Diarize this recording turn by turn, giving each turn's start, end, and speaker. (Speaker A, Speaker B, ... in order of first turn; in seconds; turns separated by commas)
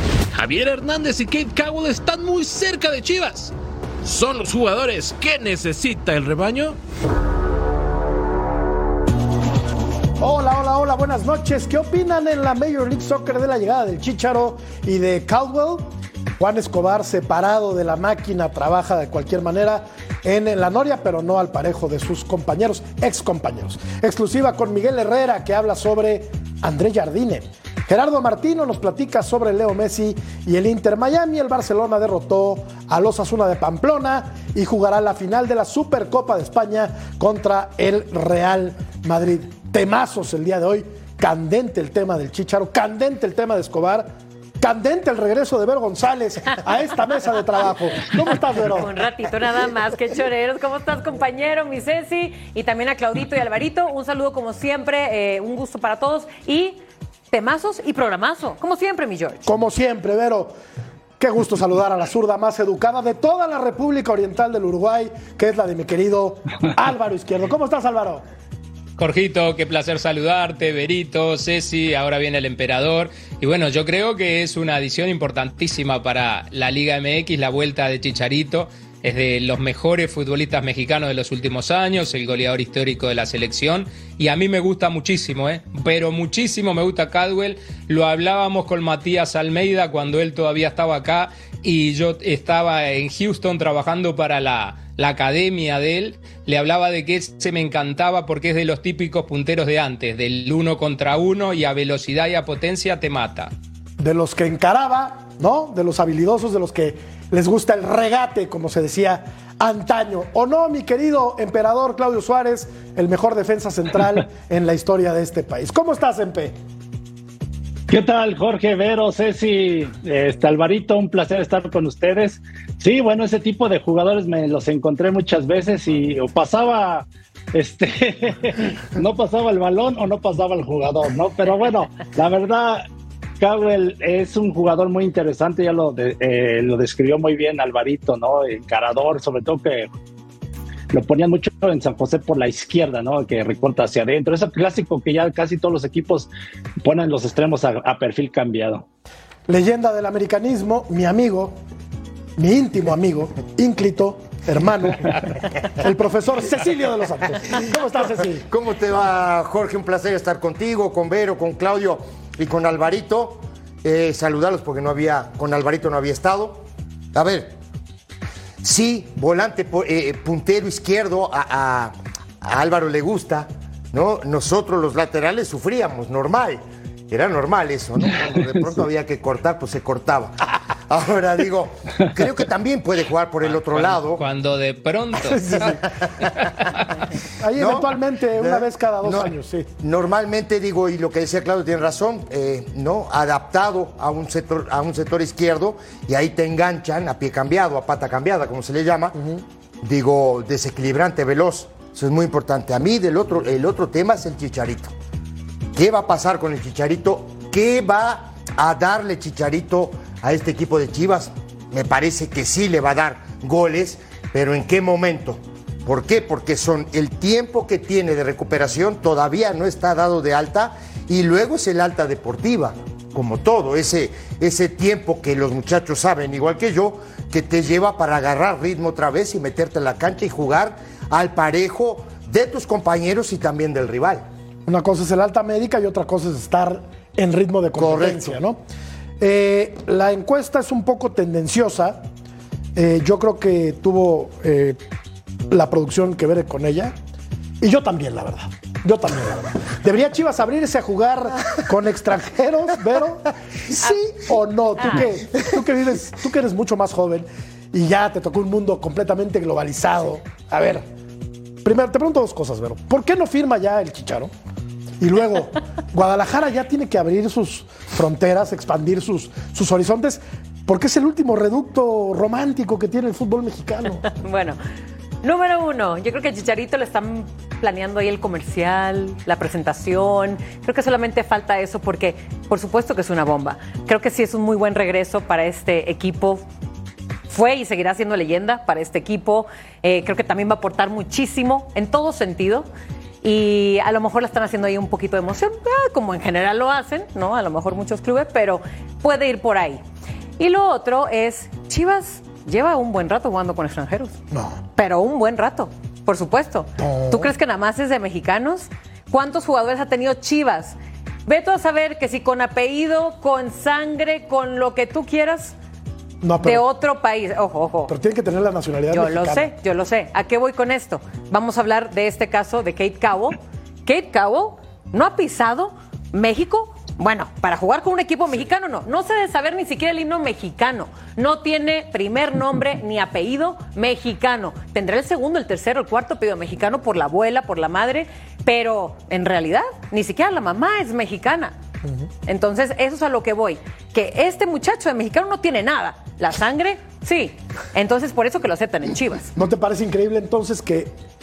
Speaker A: 0.3-6.8, Speaker B: 10.2-44.1, Speaker B: 44.6-48.9, Speaker C: 48.7-56.8, Speaker C: 57.3-59.5, Speaker B: 59.4-60.5, Speaker B: 61.2-68.2, Speaker D: 69.0-103.5, Speaker B: 104.0-116.5, Speaker E: 117.9-132.8, Speaker E: 133.4-139.9, Speaker E: 140.9-146.3, Speaker E: 146.8-148.8, Speaker B: 149.5-151.6, Speaker B: 152.4-158.4, Speaker F: 158.5-167.5, Speaker F: 168.6-184.2, Speaker D: 183.4-186.9, Speaker B: 185.2-185.8, Speaker F: 185.4-186.1, Speaker B: 187.4-189.7, Speaker F: 187.6-199.2, Speaker B: 199.1-199.4, Speaker F: 199.8-204.9, Speaker F: 205.7-234.2, Speaker B: 234.7-238.6, Speaker F: 237.8-238.3, Speaker B: 239.2-242.0, Speaker B: 242.7-244.8, Speaker B: 245.5-246.9, Speaker B: 247.6-260.9, Speaker B: 261.6-264.3, Speaker B: 265.0-274.0, Speaker C: 274.1-274.6, Speaker C: 275.2-286.4, Speaker C: 287.3-292.7, Speaker C: 293.2-299.8, Speaker C: 300.4-304.2, Speaker B: 304.3-304.6, Speaker C: 304.8-310.8, Speaker B: 306.8-307.3, Speaker C: 311.3-315.5, Speaker B: 316.2-316.6, Speaker C: 316.4-317.9, Speaker B: 317.9-319.5, Speaker C: 318.9-341.5, Speaker C: 342.2-349.3, Speaker B: 349.4-350.9